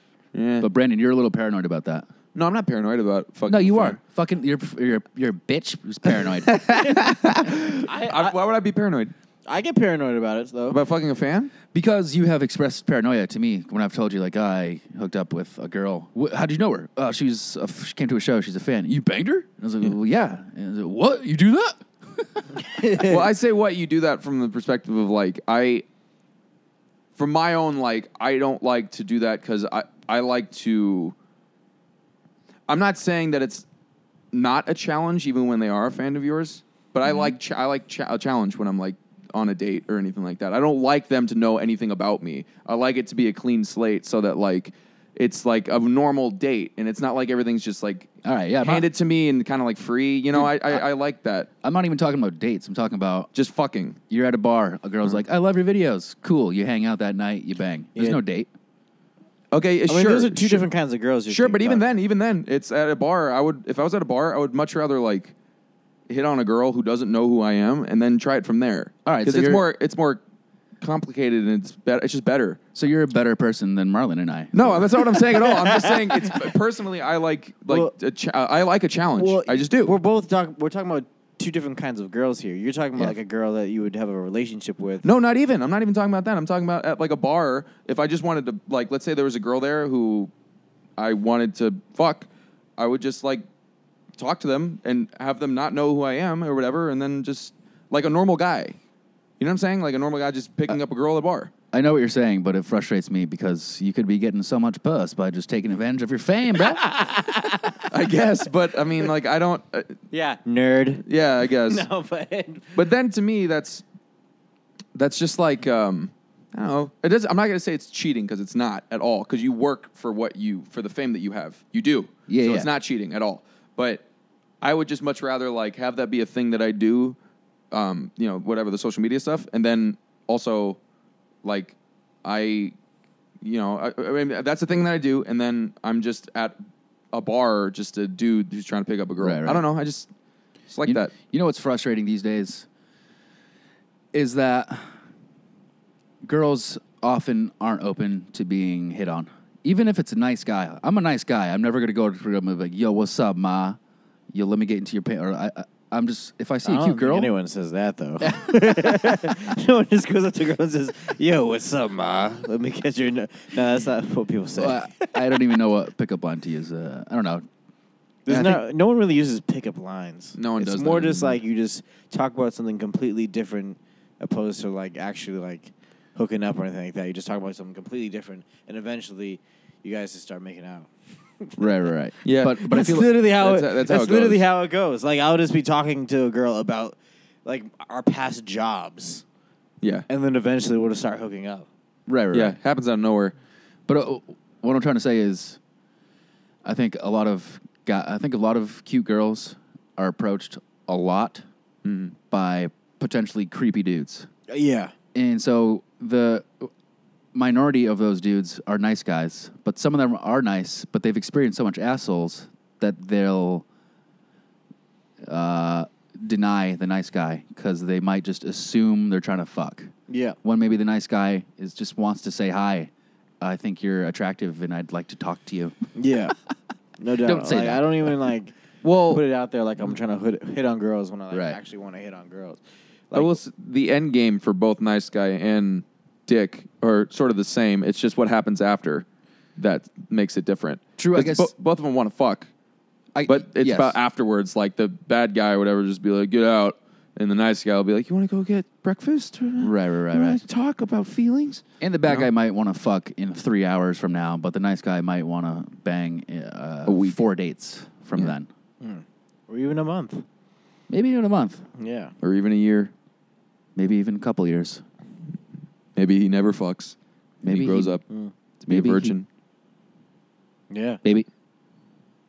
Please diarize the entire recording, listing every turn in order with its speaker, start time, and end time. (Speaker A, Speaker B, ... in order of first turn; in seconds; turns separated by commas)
Speaker A: 0.3-0.7, Speaker B: 0.6-2.1, Speaker A: 2.4-4.0, Speaker B: 3.5-6.7, Speaker A: 6.5-9.1, Speaker C: 7.8-8.4, Speaker C: 9.4-10.8, Speaker A: 10.7-11.5, Speaker B: 11.7-22.8, Speaker C: 22.7-23.3, Speaker A: 23.0-25.9, Speaker A: 27.2-31.1, Speaker A: 32.7-33.7, Speaker A: 34.3-51.5, Speaker B: 48.2-48.9, Speaker B: 50.3-50.9, Speaker B: 51.6-53.3, Speaker A: 53.3-54.0, Speaker B: 54.1-58.5, Speaker A: 59.5-60.7, Speaker C: 59.9-61.9, Speaker A: 61.3-65.3, Speaker A: 66.1-70.2, Speaker B: 69.0-69.6, Speaker A: 70.8-72.6, Speaker B: 72.8-75.1, Speaker A: 74.5-80.0, Speaker C: 75.2-76.5, Speaker C: 79.2-85.1, Speaker A: 85.0-90.3, Speaker A: 91.0-93.5, Speaker A: 94.2-98.8, Speaker A: 99.4-101.5, Speaker B: 101.7-107.0, Speaker C: 106.7-107.9, Speaker A: 107.9-110.0, Speaker C: 110.1-112.8, Speaker A: 111.1-111.8, Speaker A: 112.8-113.8, Speaker A: 115.0-124.0, Speaker B: 122.3-122.7, Speaker A: 124.6-127.2, Speaker A: 127.7-130.8, Speaker A: 131.4-132.8, Speaker A: 133.4-136.6, Speaker A: 137.1-140.1, Speaker B: 139.2-139.7, Speaker A: 140.7-141.1, Speaker B: 140.8-142.7, Speaker B: 144.1-144.9, Speaker B: 146.2-153.8, Speaker B: 154.3-157.3, Speaker C: 156.7-165.4, Speaker B: 158.2-159.2, Speaker B: 164.6-167.5, Speaker B: 168.3-168.6, Speaker C: 168.3-181.6, Speaker A: 170.4-171.2, Speaker B: 181.6-183.1, Speaker A: 182.2-184.4, Speaker C: 182.6-189.2, Speaker A: 189.8-190.1, Speaker C: 190.1-191.7, Speaker B: 192.1-192.6, Speaker A: 192.3-193.3, Speaker B: 193.9-195.6, Speaker B: 196.6-201.4, Speaker A: 201.8-202.2, Speaker B: 202.3-204.3, Speaker C: 204.5-204.9, Speaker B: 205.1-206.7, Speaker B: 207.3-213.7, Speaker B: 215.2-219.9, Speaker C: 220.1-220.4, Speaker B: 220.4-222.9, Speaker B: 223.4-225.8, Speaker C: 226.0-226.4, Speaker C: 227.0-228.5, Speaker B: 227.2-228.2, Speaker B: 228.8-229.2, Speaker C: 229.1-233.4, Speaker B: 231.3-231.6, Speaker A: 233.1-239.1, Speaker A: 239.6-242.5, Speaker B: 241.0-241.5, Speaker B: 243.1-244.0, Speaker A: 243.3-252.3, Speaker B: 249.6-250.4, Speaker B: 251.8-258.5, Speaker A: 256.9-257.2, Speaker C: 258.8-260.2, Speaker B: 260.9-261.7, Speaker C: 261.8-262.1, Speaker A: 262.2-262.9, Speaker B: 263.8-264.8, Speaker A: 265.9-268.0, Speaker B: 267.4-268.0, Speaker A: 268.6-269.3, Speaker B: 268.7-269.1, Speaker C: 270.7-271.0